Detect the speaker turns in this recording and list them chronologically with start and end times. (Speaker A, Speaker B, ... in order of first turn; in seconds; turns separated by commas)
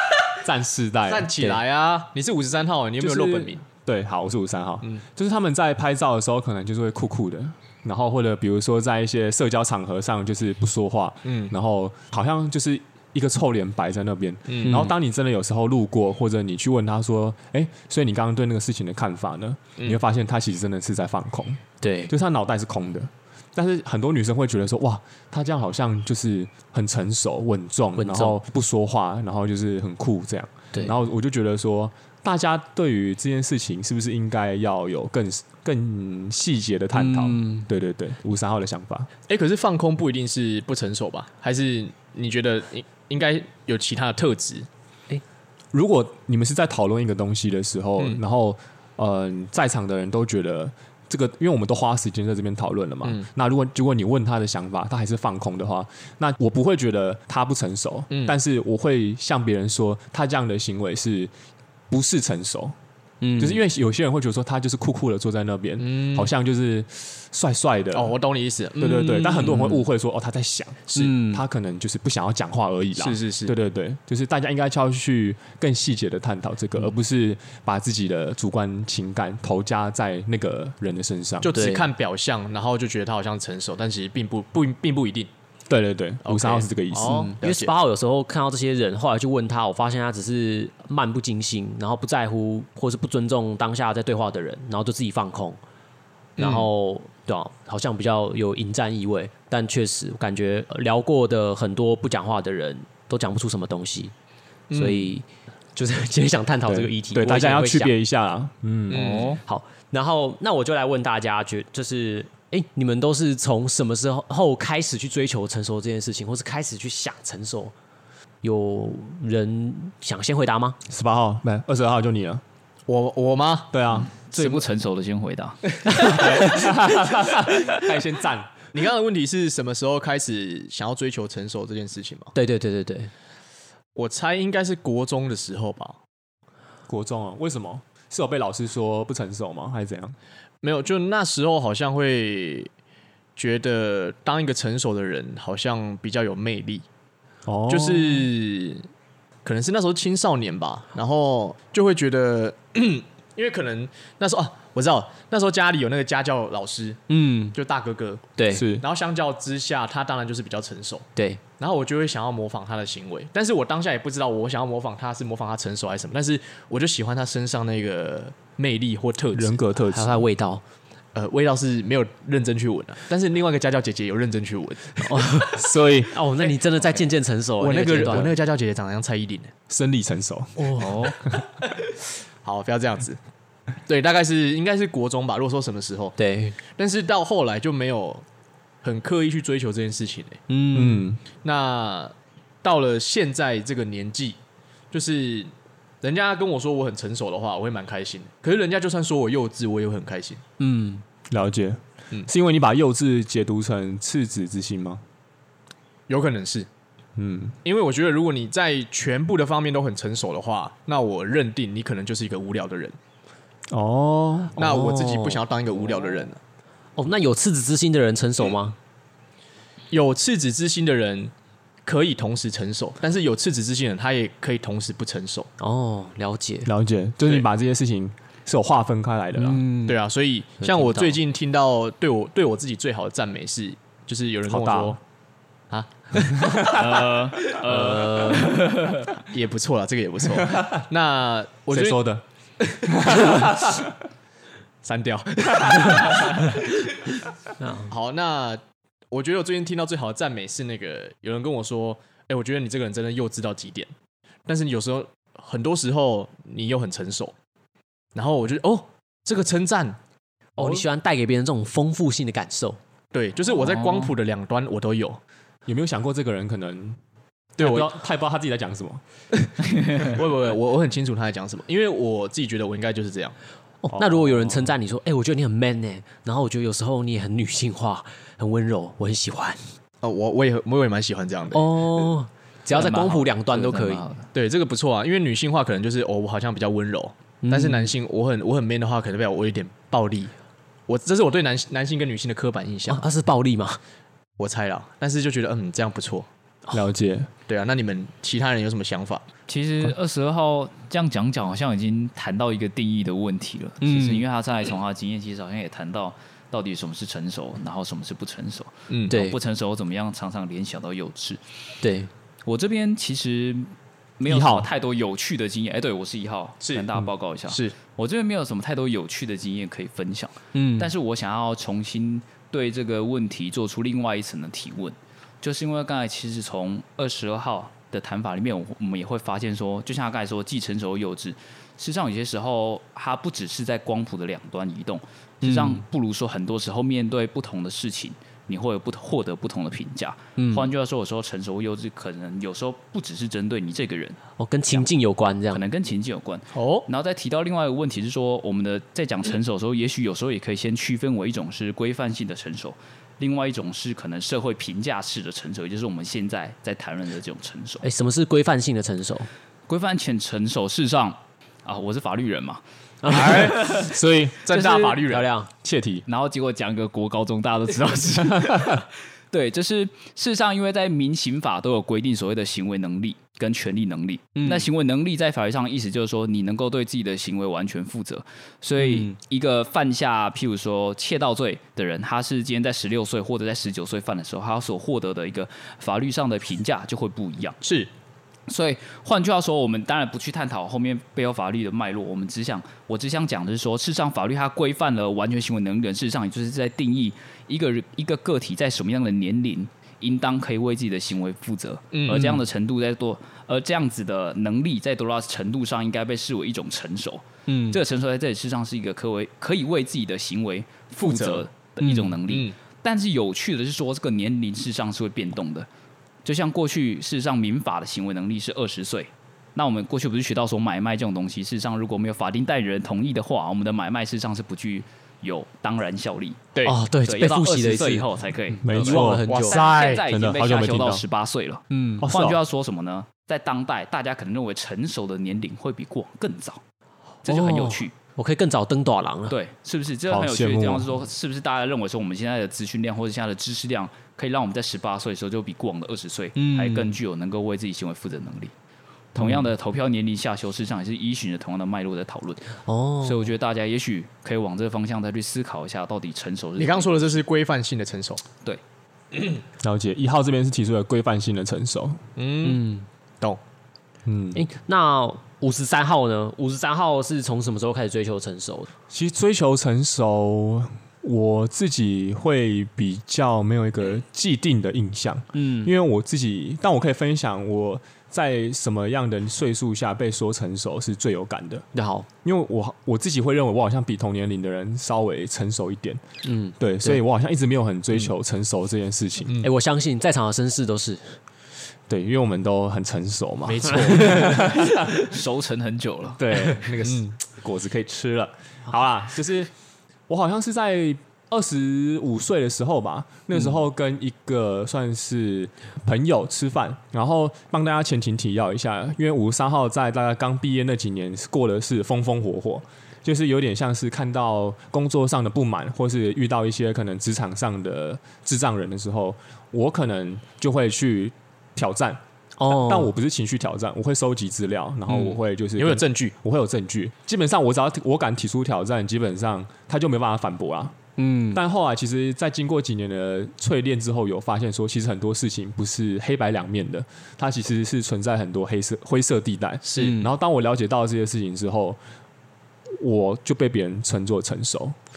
Speaker A: 0.3-1.3, Speaker B: 1.1-3.6, Speaker A: 3.0-39.1, Speaker B: 11.2-11.5, Speaker B: 14.5-14.9, Speaker C: 14.6-14.9, Speaker C: 21.8-22.1, Speaker C: 28.0-28.4, Speaker C: 37.0-37.7, Speaker B: 39.3-44.7, Speaker A: 45.7-61.3, Speaker B: 58.1-58.4, Speaker A: 61.9-62.8, Speaker C: 63.2-63.6, Speaker A: 63.4-68.1, Speaker B: 65.8-66.3, Speaker B: 67.9-69.7, Speaker A: 68.8-81.6, Speaker C: 69.4-69.7, Speaker C: 70.9-71.4, Speaker B: 73.0-73.5, Speaker B: 81.4-85.3, Speaker C: 81.5-81.9, Speaker A: 85.7-87.3, Speaker B: 86.2-87.7, Speaker C: 87.0-95.6, Speaker B: 96.4-96.7, Speaker C: 96.4-104.1, Speaker B: 104.7-105.1, Speaker C: 104.7-107.9, Speaker A: 106.7-109.1, Speaker B: 108.9-109.4, Speaker D: 108.9-109.4, Speaker C: 109.4-117.7, Speaker C: 118.4-120.8, Speaker A: 120.9-122.4, Speaker B: 122.9-123.8, Speaker A: 123.7-124.1, Speaker D: 124.1-126.4, Speaker B: 124.4-124.6, Speaker B: 125.9-126.6, Speaker A: 125.9-128.5, Speaker B: 128.7-132.3, Speaker C: 132.3-133.1, Speaker B: 134.0-136.0, Speaker A: 136.9-140.2, Speaker B: 140.6-142.7, Speaker B: 143.4-146.8, Speaker A: 147.5-148.3, Speaker B: 147.7-148.9, Speaker B: 149.4-157.0, Speaker C: 157.1-157.6, Speaker B: 157.5-161.1, Speaker C: 158.4-158.7, Speaker A: 158.5-158.8, Speaker B: 161.6-169.6, Speaker A: 169.3-170.2, Speaker C: 169.9-170.6, Speaker B: 171.2-175.1, Speaker C: 175.0-178.4, Speaker A: 175.5-176.1, Speaker B: 177.6-179.5, Speaker A: 179.7-181.4, Speaker C: 180.6-181.1, Speaker D: 180.8-181.2, Speaker B: 182.4-183.2, Speaker B: 183.9-188.2, Speaker C: 186.2-186.6, Speaker B: 188.8-190.4, Speaker C: 190.5-191.1, Speaker A: 190.7-191.2, Speaker B: 191.4-194.4, Speaker B: 194.9-200.4, Speaker C: 200.6-201.0, Speaker A: 201.3-205.0, Speaker B: 206.1-206.7, Speaker A: 207.2-207.6, Speaker B: 207.6-213.0, Speaker A: 213.7-214.6, Speaker B: 214.6-216.4, Speaker C: 214.6-215.4, Speaker C: 217.0-218.8, Speaker B: 219.9-221.3, Speaker B: 221.8-225.5, Speaker C: 225.6-226.7, Speaker A: 226.7-229.6, Speaker C: 229.3-230.0, Speaker B: 229.9-235.0, Speaker C: 230.6-231.2, Speaker A: 234.5-235.0, Speaker B: 235.7-238.1, Speaker A: 236.4-236.8, Speaker D: 236.6-239.2, Speaker C: 237.6-238.6, Speaker B: 239.2-242.0, Speaker A: 240.4-240.8, Speaker A: 241.7-242.2, Speaker B: 242.7-243.7, Speaker A: 242.8-243.9, Speaker B: 244.8-246.8, Speaker C: 247.6-247.9, Speaker B: 247.9-253.9, Speaker B: 254.5-257.3, Speaker B: 258.1-260.0, Speaker C: 260.6-262.8, Speaker B: 263.1-265.2, Speaker D: 263.7-264.1, Speaker A: 265.7-267.0, Speaker B: 267.6-267.9, Speaker A: 267.6-269.0, Speaker B: 269.9-273.4, Speaker C: 273.8-279.7, Speaker A: 273.9-274.7, Speaker B: 280.0-282.1, Speaker C: 281.5-284.0, Speaker D: 282.7-284.3, Speaker B: 284.3-290.3, Speaker C: 287.4-287.9, Speaker B: 290.9-293.1, Speaker C: 292.9-293.8, Speaker B: 294.4-296.3, Speaker A: 296.7-297.3, Speaker B: 297.5-299.2, Speaker D: 299.5-311.4, Speaker C: 303.8-304.2, Speaker B: 308.9-309.2, Speaker C: 309.1-309.4, Speaker C: 311.8-312.1, Speaker D: 312.4-344.2, Speaker A: 314.3-314.7, Speaker B: 316.6-316.9, Speaker B: 317.5-317.8, Speaker C: 320.5-320.9, Speaker C: 335.4-335.8, Speaker C: 340.4-340.7, Speaker C: 344.4-345.6, Speaker D: 345.5-357.9, Speaker B: 346.5-346.9, Speaker C: 357.8-359.3, Speaker D: 359.7-362.6, Speaker C: 363.0-363.6, Speaker B: 363.1-363.8, Speaker D: 363.1-363.9, Speaker A: 363.5-364.5, Speaker B: 364.4-365.3, Speaker C: 364.5-365.5, Speaker A: 365.6-366.1, Speaker D: 366.1-387.6, Speaker A: 368.3-368.8, Speaker C: 374.4-374.7, Speaker C: 378.8-379.2, Speaker B: 387.6-387.9, Speaker D: 388.5-415.7, Speaker B: 401.9-402.4, Speaker C: 407.5-407.8, Speaker B: 411.0-411.5, Speaker C: 411.8-412.2, Speaker B: 412.3-412.5, Speaker D: 416.2-426.5, Speaker C: 426.6-429.6, Speaker D: 427.0-436.6, Speaker A: 428.6-429.3, Speaker B: 429.3-430.1, Speaker A: 430.0-431.0, Speaker C: 431.7-432.1, Speaker A: 432.0-432.4, Speaker D: 437.2-437.9, Speaker C: 437.3-439.4, Speaker D: 439.3-448.5, Speaker A: 440.1-440.9, Speaker C: 446.4-447.0, Speaker D: 449.1-457.2, Speaker A: 449.2-449.4, Speaker C: 452.7-453.3, Speaker B: 456.6-458.2, Speaker A: 459.6-462.0, Speaker B: 462.2-462.7, Speaker C: 462.4-462.9, Speaker A: 464.1-464.4, Speaker C: 464.3-468.7, Speaker A: 468.9-481.7, Speaker C: 475.3-475.7, Speaker C: 481.7-482.1, Speaker A: 482.2-486.0, Speaker C: 486.2-487.0, Speaker A: 486.6-489.4, Speaker C: 489.4-491.2, Speaker A: 491.9-494.9, Speaker B: 493.5-494.3, Speaker C: 493.7-494.8, Speaker D: 494.9-496.7, Speaker A: 496.2-499.5, Speaker A: 500.1-530.8, Speaker C: 522.4-522.9, Speaker B: 524.9-526.1, Speaker C: 531.0-531.4, Speaker A: 531.3-541.8, Speaker B: 539.7-540.0, Speaker C: 539.7-540.1, Speaker A: 542.7-544.8